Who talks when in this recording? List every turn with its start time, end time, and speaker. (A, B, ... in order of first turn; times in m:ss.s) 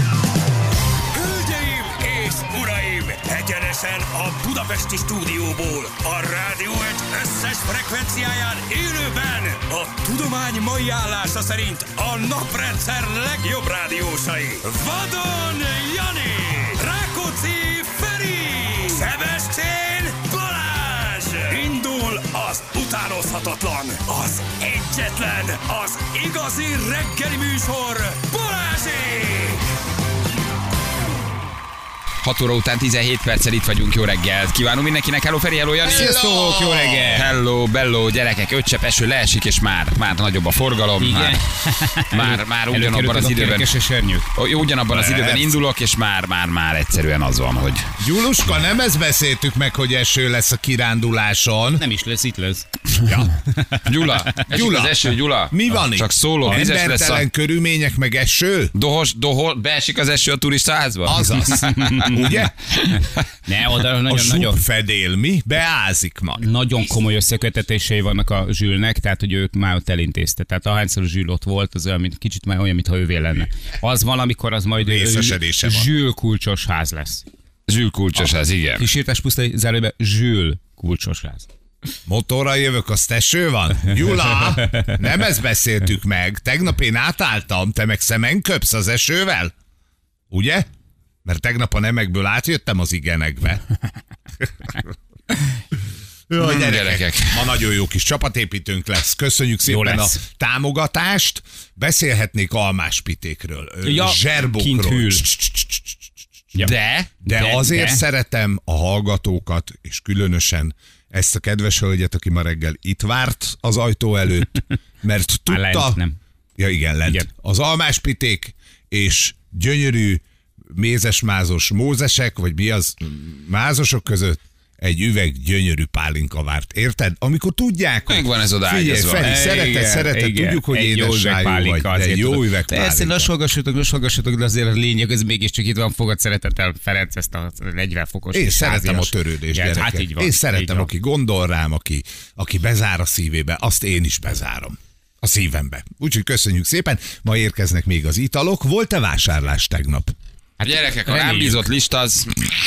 0:01.1-0:29.6 A
0:32.2-0:36.1 B
0:35.8-0:37.2 C
0:35.8-0:37.3 D
0:37.1-0:41.4 B
0:41.0-0:44.3 D
0:42.1-0:43.8 B
0:44.3-0:47.9 B
0:44.9-0:45.6 C
0:48.0-0:51.8 C
0:51.8-0:52.7 D
0:53.0-0:53.3 C
0:53.8-0:57.2 B
0:54.4-0:58.7 C
0:58.7-1:01.9 B
1:01.0-1:02.6 C
1:01.6-1:02.3 D
1:03.4-1:04.6 D
1:04.1-1:06.5 C
1:06.4-1:17.2 D
1:14.8-1:15.9 C
1:17.7-1:18.9 B
1:18.8-1:21.5 D
1:22.0-1:29.5 C
1:30.3-1:30.7 C
1:31.2-1:33.6 C
1:36.3-1:46.0 C
1:36.4-1:37.5 B
1:39.7-1:40.2 D
1:43.8-1:45.2 D
1:46.6-1:47.1 B
1:47.2-1:48.0 D
1:47.2-1:56.0 C
1:55.5-1:56.2 D
1:56.6-2:13.3 C
2:08.1-2:09.7 B
2:09.2-2:20.9 D
2:18.3-2:30.1 C
2:30.6-2:32.5 B
2:31.0-2:31.6 D